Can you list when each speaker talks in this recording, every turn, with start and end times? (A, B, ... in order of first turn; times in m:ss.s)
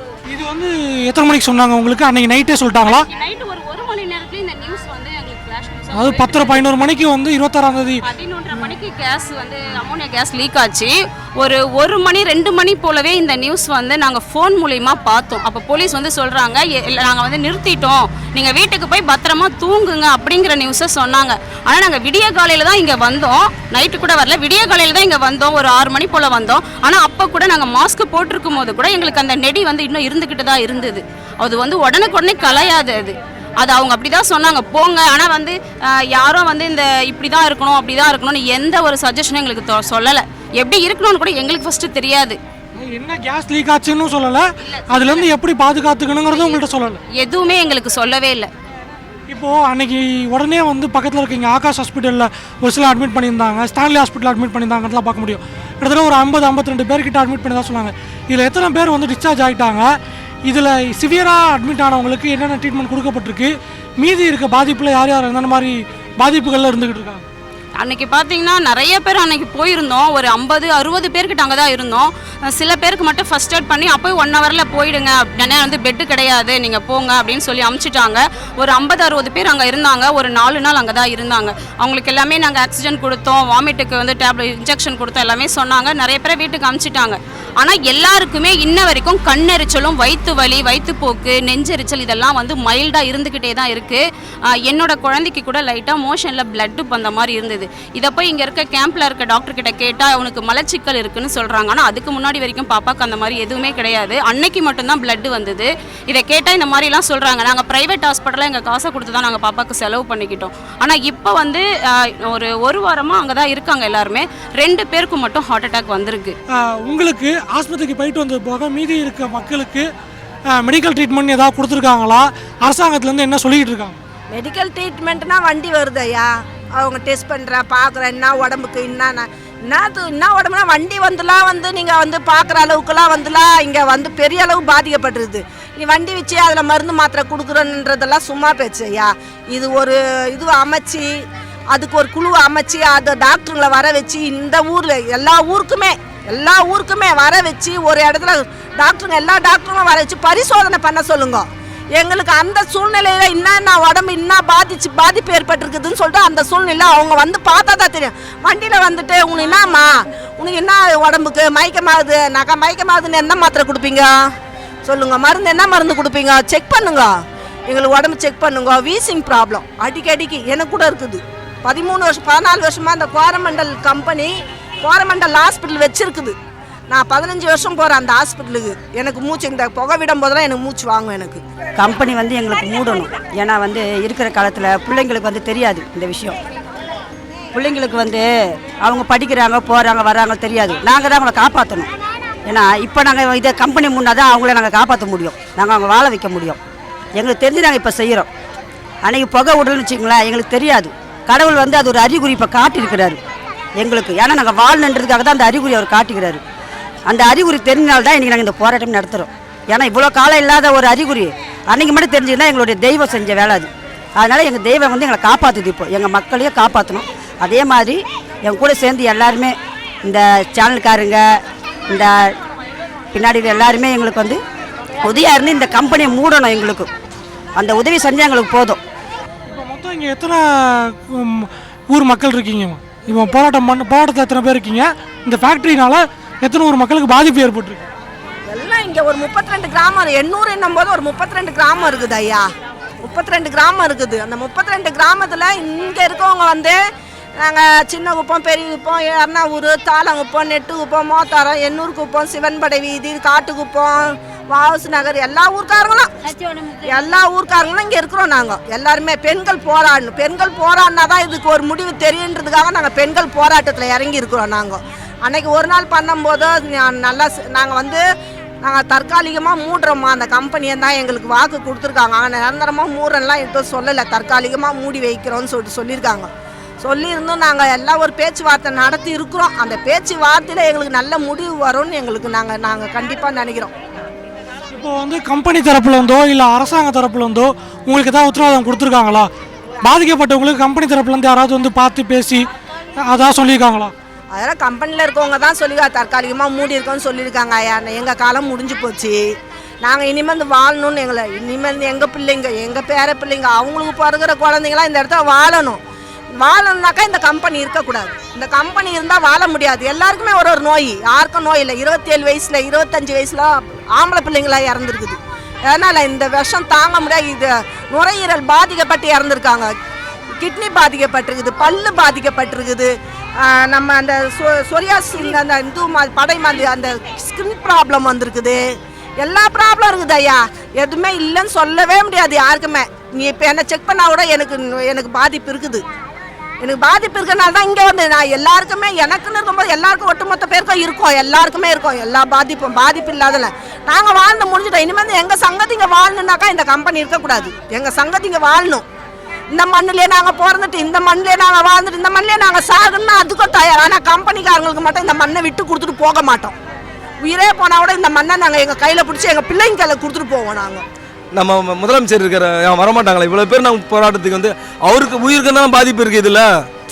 0:00.3-0:03.1 A
0:02.8-0:06.6 B
0:05.9-0:08.0 A
0:08.0-0:35.5 B
0:36.1-0:42.4 B
0:42.8-0:47.0 A
0:44.6-0:45.2 B
0:46.3-0:46.6 B
0:47.1-0:48.5 B
0:49.3-0:59.9 A
1:00.5-1:07.2 A
1:07.8-1:34.0 B
1:34.6-1:51.6 B
1:52.3-1:56.4 B
1:56.6-1:59.8 A
2:00.6-2:04.0 A
2:04.3-2:21.1 C
2:21.7-2:31.4 C
2:31.9-2:44.1 C
2:44.8-2:47.1 C
2:47.7-2:54.3 C
2:54.8-2:56.4 C
2:56.9-3:01.4 C
3:01.8-3:06.4 D
3:07.5-3:08.3 D
3:08.8-3:11.9 D
3:12.4-3:16.6 D
3:17.1-3:18.3 D
3:19.0-3:23.2 D
3:23.8-3:26.4 D
3:27.1-3:41.2 D
3:41.9-3:42.1 D
3:43.1-3:44.4 D
3:45.0-3:46.9 D
3:47.6-3:48.8 D
3:49.5-3:57.8 A
3:58.5-4:02.5 C
4:03.0-4:06.8 C
4:07.4-4:16.3 C
4:16.8-4:28.0 C
4:28.6-4:36.3 C
4:36.8-4:43.7 C
4:44.7-4:49.3 A
4:49.8-4:52.4 A
4:53.0-4:53.9 A
4:54.3-4:59.2 C
4:59.8-5:05.8 C
5:06.4-5:19.7 C
5:20.4-5:28.6 C
5:29.2-5:35.8 C
5:36.6-5:48.8 C
5:49.5-5:56.5 C
5:57.2-6:00.8 C
6:01.4-6:06.5 E